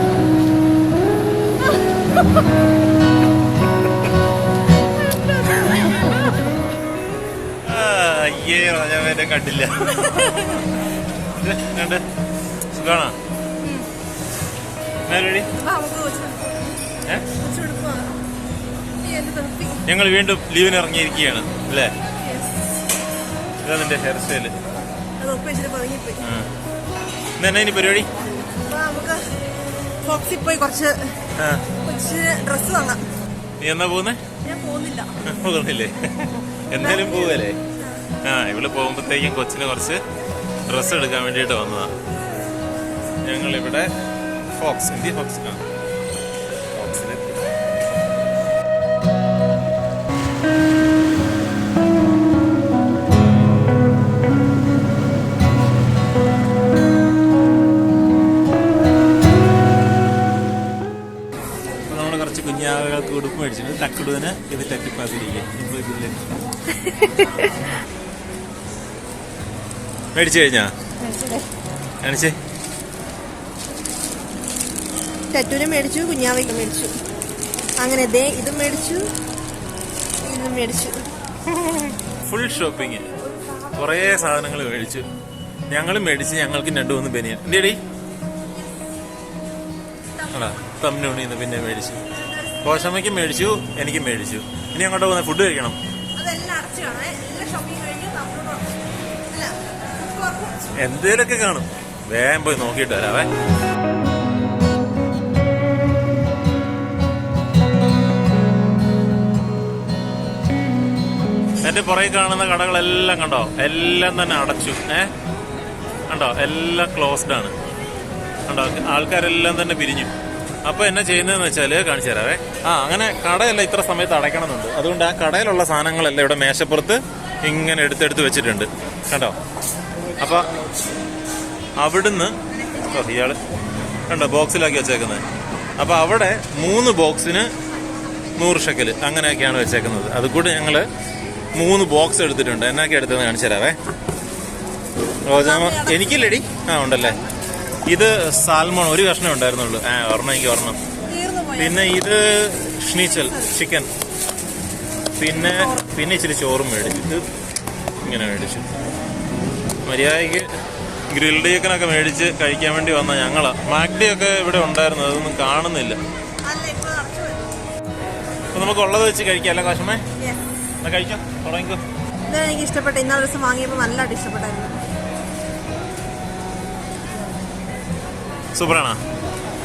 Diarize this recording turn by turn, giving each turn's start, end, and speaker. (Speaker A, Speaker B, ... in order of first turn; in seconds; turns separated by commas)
Speaker A: 5.7-6.0, Speaker B: 7.6-12.0, Speaker B: 12.7-13.2, Speaker B: 15.1-15.5, Speaker A: 15.6-16.8, Speaker A: 17.4-18.1, Speaker A: 19.0-19.9, Speaker B: 19.9-21.9, Speaker A: 22.2-22.7, Speaker B: 23.6-24.6, Speaker A: 25.2-26.3, Speaker B: 26.2-26.5, Speaker B: 27.4-28.1, Speaker A: 28.6-29.2, Speaker A: 30.0-31.1, Speaker B: 31.4-31.6, Speaker A: 31.8-33.0, Speaker B: 33.6-34.2, Speaker A: 34.4-35.1, Speaker B: 35.2-37.6, Speaker A: 36.8-37.5, Speaker B: 38.2-40.0, Speaker B: 40.7-41.9, Speaker B: 43.2-43.9, Speaker B: 44.5-45.6, Speaker B: 46.7-47.4, Speaker B: 61.9-66.2, Speaker A: 66.9-67.3, Speaker B: 70.1-70.7, Speaker A: 71.0-71.5, Speaker B: 72.0-72.4, Speaker A: 75.3-77.0, Speaker A: 77.8-79.1, Speaker A: 80.2-81.1, Speaker B: 81.5-83.1, Speaker B: 83.6-85.1, Speaker B: 85.7-87.8, Speaker B: 90.3-92.1, Speaker B: 92.6-95.8, Speaker A: 96.2-98.7, Speaker A: 99.3-100.7, Speaker B: 100.8-103.3, Speaker B: 111.6-115.1, Speaker B: 116.1-117.5, Speaker B: 118.5-120.1, Speaker B: 120.7-129.4, Speaker B: 130.2-130.5, Speaker B: 131.8-133.4, Speaker B: 134.1-135.2, Speaker B: 135.8-137.5, Speaker B: 138.4-140.9, Speaker B: 141.5-143.8, Speaker B: 145.3-147.2, Speaker A: 145.3-146.2, Speaker B: 147.9-150.8, Speaker A: 151.1-152.0, Speaker B: 151.6-153.9, Speaker A: 153.0-153.6, Speaker B: 155.2-157.2, Speaker A: 155.4-155.9, Speaker B: 158.0-158.7, Speaker B: 159.8-160.5, Speaker B: 161.1-166.0, Speaker A: 166.4-167.4, Speaker B: 168.5-170.0, Speaker B: 170.8-171.8, Speaker A: 172.3-174.8, Speaker B: 178.5-179.0